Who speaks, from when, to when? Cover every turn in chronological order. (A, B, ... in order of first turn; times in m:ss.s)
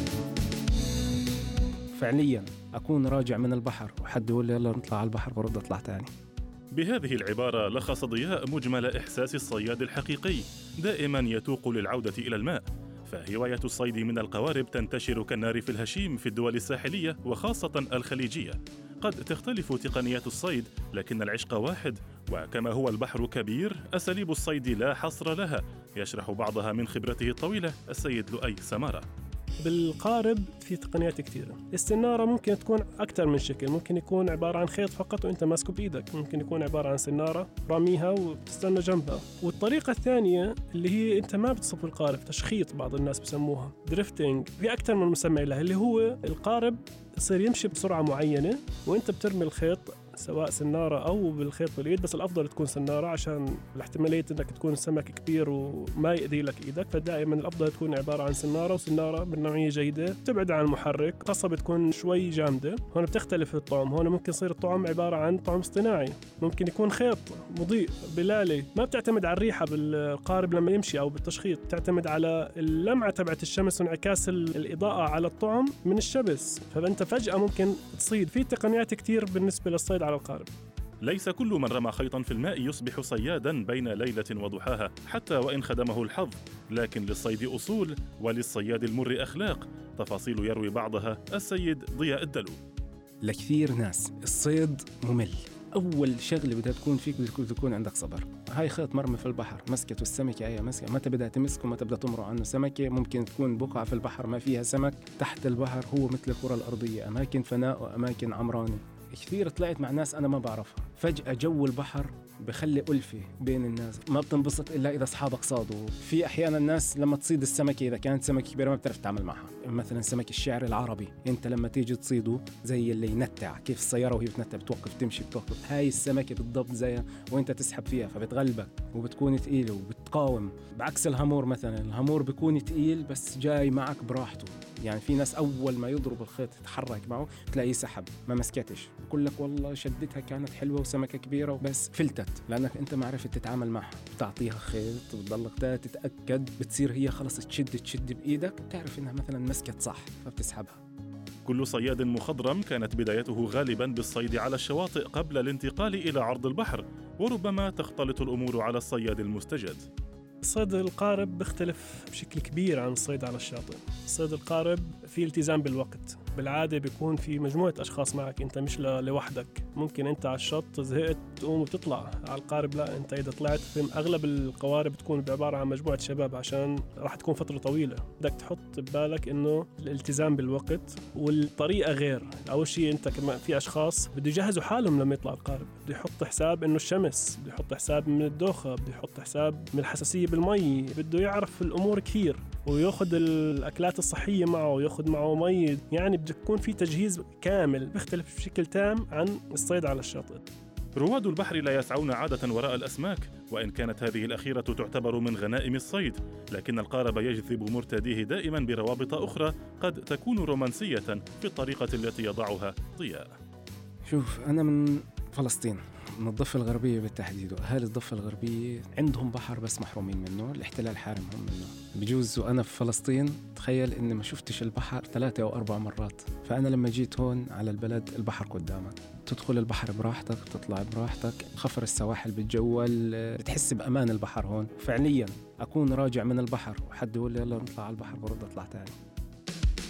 0:02.0-0:06.1 A
0:06.7-0:29.0 B
0:29.6-1:20.5 C
1:21.0-1:32.6 B
1:33.2-2:30.8 A
2:31.4-2:39.8 B
2:40.4-3:20.4 C
3:21.0-3:33.3 B
3:34.1-3:59.0 A